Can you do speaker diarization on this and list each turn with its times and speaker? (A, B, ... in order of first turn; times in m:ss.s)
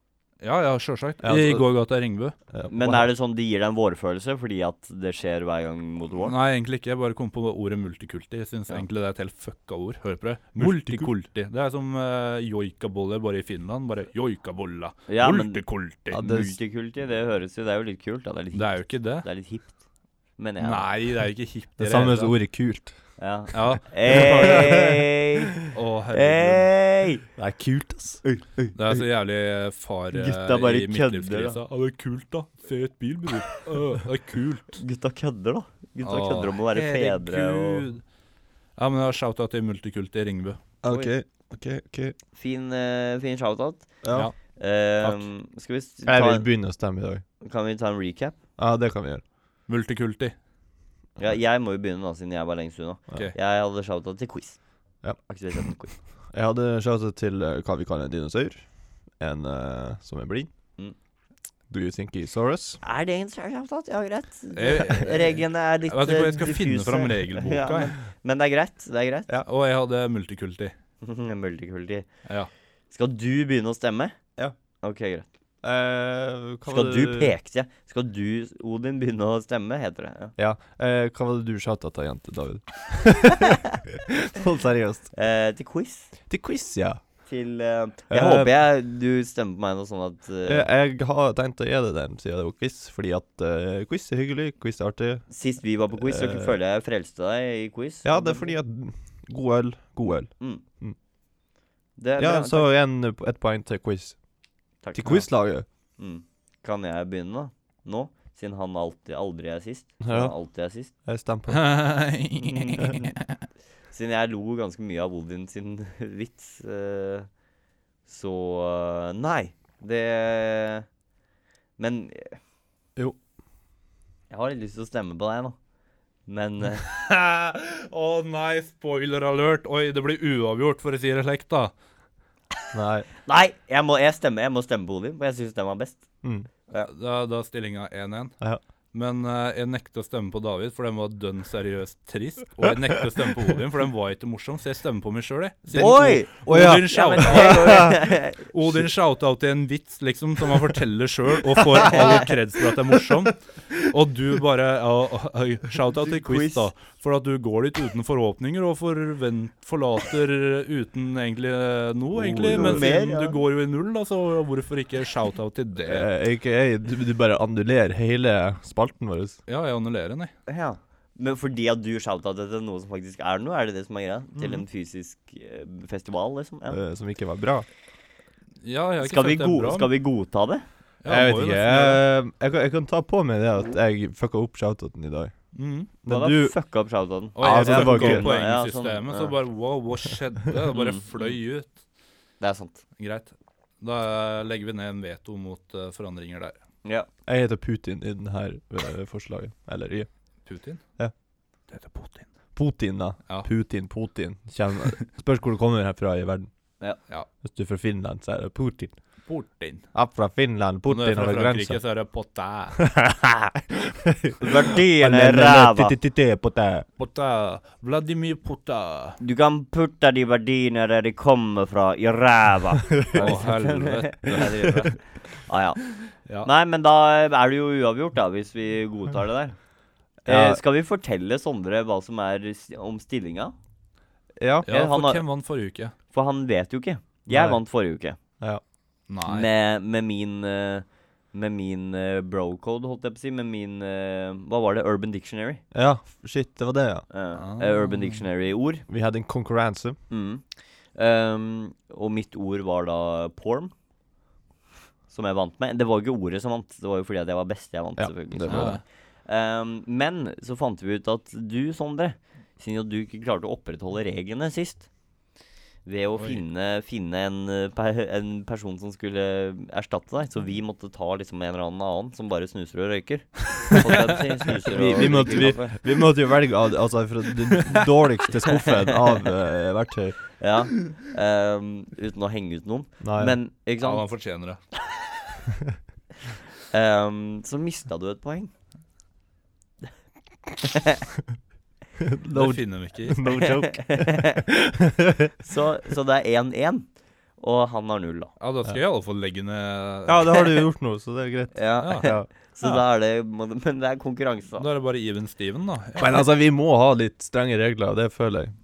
0:00.4-0:02.4 A
0:01.2-0:01.7 B
0:02.5-0:03.1 B
0:02.7-0:06.4 C
0:06.2-0:16.2 A
0:10.6-0:11.1 B
0:15.1-0:19.8 C
0:16.1-0:16.6 B
0:18.6-0:19.3 A
0:20.4-0:20.9 C
0:20.6-0:22.4 A
0:21.8-0:23.0 B
0:23.2-0:25.6 C
0:23.5-0:25.0 A
0:24.1-0:25.0 B
0:25.7-0:26.7 A
0:26.1-0:27.3 C
0:27.4-0:28.2 B
0:28.2-0:28.8 C
0:28.8-0:34.8 A
0:30.1-0:31.6 C
0:34.8-0:37.9 C
0:36.0-0:38.0 A
0:38.8-0:40.6 A
0:40.8-0:42.2 B
0:42.4-0:46.5 C
0:44.0-0:44.3 B
0:46.1-0:47.2 B
0:47.4-0:48.4 C
0:48.6-0:49.2 B
0:49.7-0:50.4 A
0:51.2-0:54.6 C
0:55.2-0:56.0 C
0:56.3-1:00.5 B
1:01.7-1:02.8 B
1:02.8-1:09.3 C
1:04.6-1:08.0 A
1:09.4-1:10.7 A
1:11.0-1:12.1 C
1:12.9-1:14.2 C
1:14.8-1:15.3 C
1:15.6-1:17.3 B
1:16.7-1:20.4 C
1:20.4-1:25.1 B
1:25.1-1:26.1 C
1:26.3-1:27.0 B
1:27.3-1:30.7 C
1:28.1-1:28.5 B
1:30.4-1:35.3 B
1:35.3-1:38.5 C
1:35.9-1:36.6 B
1:38.0-1:41.0 B
1:42.0-1:42.7 C
1:42.2-1:44.2 B
1:44.8-1:45.2 C
1:44.9-1:45.7 B
1:46.0-1:50.9 C
1:50.0-1:50.4 B
1:50.9-1:51.7 B
1:51.5-1:53.3 A
1:52.4-1:53.1 C
1:53.9-1:57.3 C
1:58.1-2:00.9 C
2:01.8-2:02.4 C
2:04.3-2:05.6 C
2:06.3-2:06.8 C
2:06.8-2:11.7 A
2:12.7-2:13.1 B
2:13.3-2:16.1 C
2:16.2-2:16.5 B
2:16.8-2:18.4 A
2:18.9-2:46.1 A
2:25.7-2:28.0 B
2:25.8-2:28.5 C
2:31.8-2:32.1 B
2:31.9-2:32.3 C
2:36.1-2:36.7 C
2:42.2-2:42.9 B
2:42.5-2:43.4 C
2:45.9-2:49.4 B
2:49.5-2:50.3 A
2:50.5-2:56.8 C
2:56.7-2:57.7 B
2:58.6-2:59.9 A
2:59.0-3:00.6 C
3:01.0-3:02.0 A
3:01.1-3:05.3 B
3:05.5-3:05.9 A
3:06.0-3:06.6 B
3:06.1-3:09.3 C
3:07.4-3:11.7 A
3:07.4-3:08.3 B
3:10.8-3:11.4 C
3:12.4-3:12.8 C
3:13.0-3:16.6 A
3:17.3-3:20.1 B
3:20.4-3:20.8 A
3:21.7-3:22.3 A
3:22.6-3:26.5 B
3:27.4-3:29.0 B
3:29.3-3:29.9 A
3:29.9-3:31.8 B
3:30.9-3:32.9 A
3:32.8-3:36.9 B
3:34.4-3:35.9 C
3:37.0-3:39.2 A
3:39.2-3:49.6 C
3:43.0-3:43.4 B
3:43.2-3:44.8 A
3:50.2-3:50.6 B
3:50.3-3:53.6 C
3:54.4-3:54.7 B
3:54.7-3:55.2 C
3:54.7-3:55.9 A
3:56.1-3:58.2 C
3:57.3-3:57.6 B
3:59.1-3:59.5 A
3:59.2-4:05.6 C
4:05.7-4:07.1 B
4:07.1-4:08.8 C
4:07.4-4:08.2 A
4:08.9-4:10.0 B
4:10.1-4:13.7 C
4:15.1-4:24.9 C
4:18.0-4:18.8 B
4:18.5-4:18.8 A
4:25.9-4:35.8 C
4:34.6-4:40.2 B
4:38.6-4:38.9 C
4:40.4-4:44.1 C
4:43.0-4:43.4 B
4:43.8-4:44.6 A
4:46.7-4:48.5 C
4:50.6-4:51.0 C
4:52.0-4:55.3 B
4:52.3-4:53.2 A
4:53.3-4:54.4 C
4:55.4-4:58.3 C
4:58.4-5:00.4 A
5:00.1-5:02.8 B
5:01.5-5:04.7 C
5:01.8-5:02.1 A
5:04.6-5:06.2 A
5:06.0-5:08.5 B